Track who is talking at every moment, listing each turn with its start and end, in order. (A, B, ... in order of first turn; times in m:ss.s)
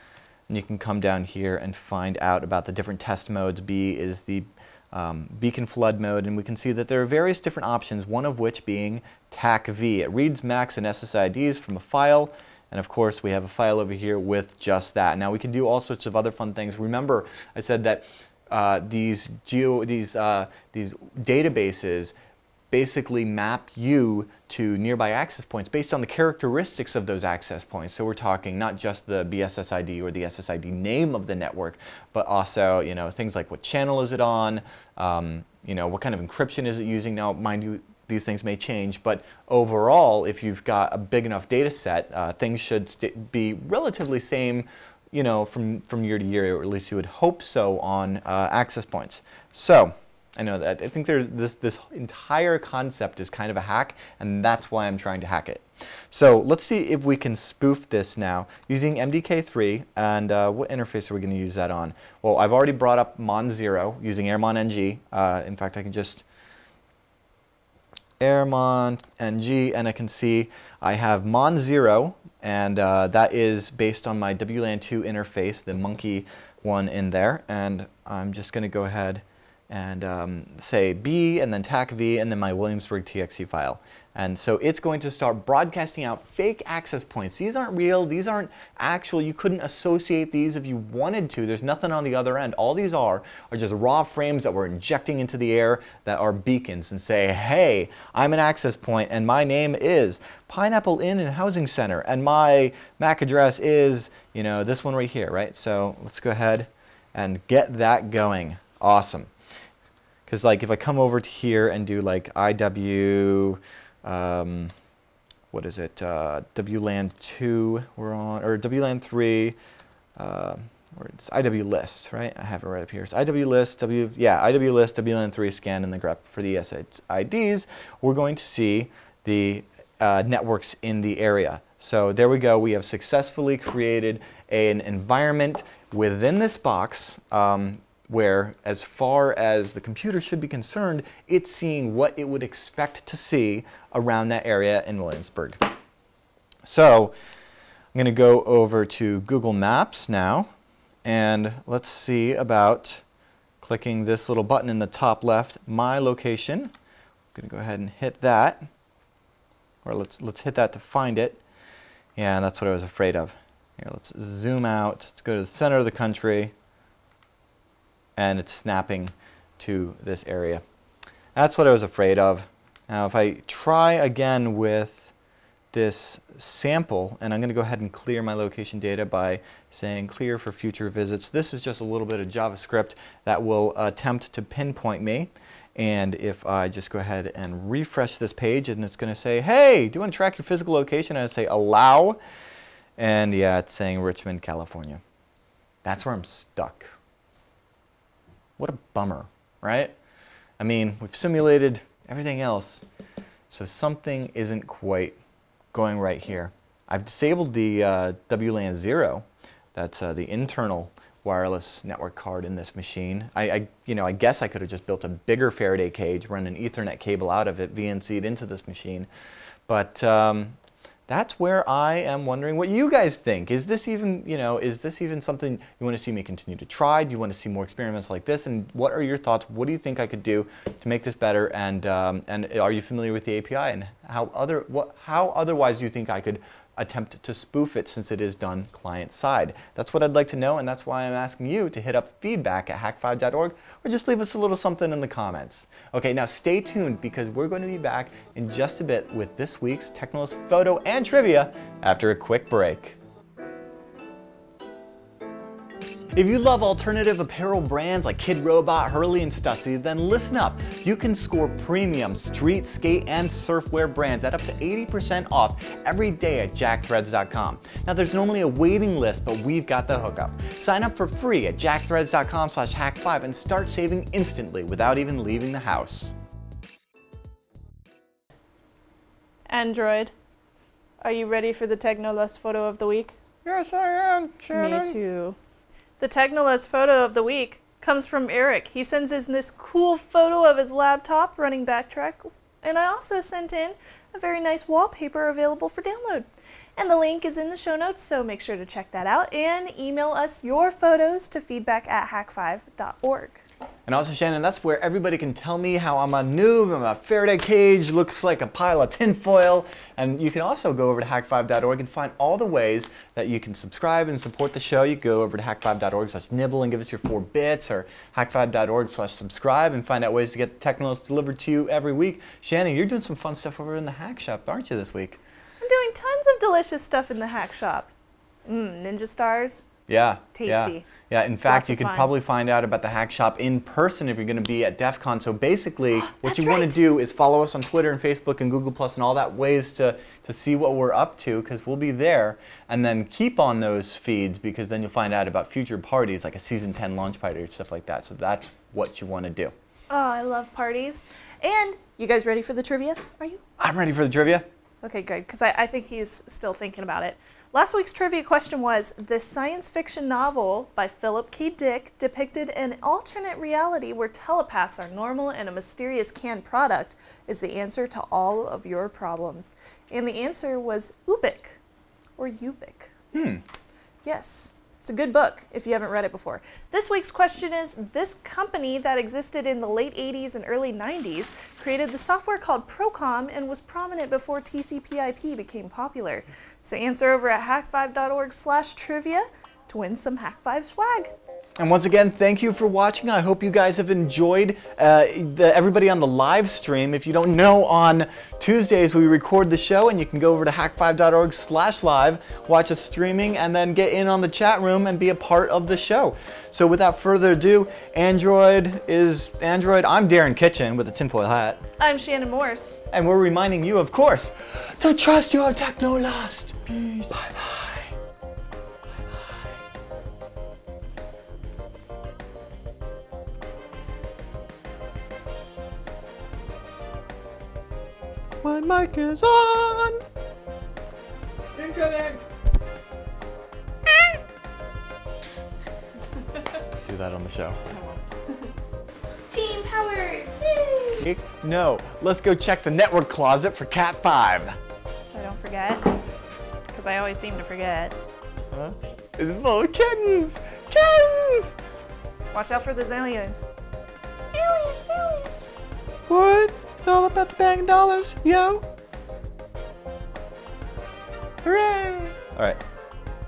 0:00.5-0:22.1 A
0:22.7-1:06.2 A
1:08.2-1:49.3 A
1:50.3-1:54.7 A
1:55.5-1:59.6 A
2:00.2-2:25.6 A
2:26.6-2:27.2 A
2:27.9-2:30.5 A
2:31.0-2:33.0 A
2:33.6-2:36.7 A
2:37.3-2:38.6 A
2:39.8-2:41.4 A
2:42.2-2:46.5 A
2:48.2-2:50.6 A
2:51.3-2:55.1 A
2:55.7-3:12.2 A
3:13.0-3:15.0 A
3:15.8-3:16.9 A
3:18.6-3:19.9 A
3:20.6-3:22.8 A
3:23.5-3:25.2 A
3:25.7-3:39.1 A
3:39.7-3:40.6 A
3:41.1-4:13.0 A
4:16.1-4:36.1 A
4:39.5-4:40.1 B
4:41.0-4:43.1 B
4:43.4-4:45.0 A
4:44.5-4:45.4 B
4:46.0-5:03.4 B
5:03.9-5:25.2 A
5:25.6-5:27.9 B
5:28.4-5:29.6 B
5:29.9-5:49.5 A
5:30.3-5:30.9 B
5:31.4-5:32.1 B
5:36.0-5:36.8 B
5:49.9-5:53.4 B
5:53.6-5:54.4 A
5:54.8-6:11.6 B
6:12.2-6:12.9 B
6:13.1-6:13.4 A
6:14.0-6:31.1 B
6:31.6-6:51.6 A
6:51.8-6:52.8 B
6:52.9-6:57.9 A
7:08.4-7:10.0 A
7:11.5-7:12.2 A
7:16.8-7:17.6 A
7:19.3-7:21.0 B
7:21.0-7:24.6 A
7:25.0-7:26.0 B
7:26.7-7:28.0 B
7:28.5-7:31.6 A
7:32.3-7:33.4 B
7:34.3-7:35.5 B
7:36.1-7:38.6 A
7:41.4-7:42.6 A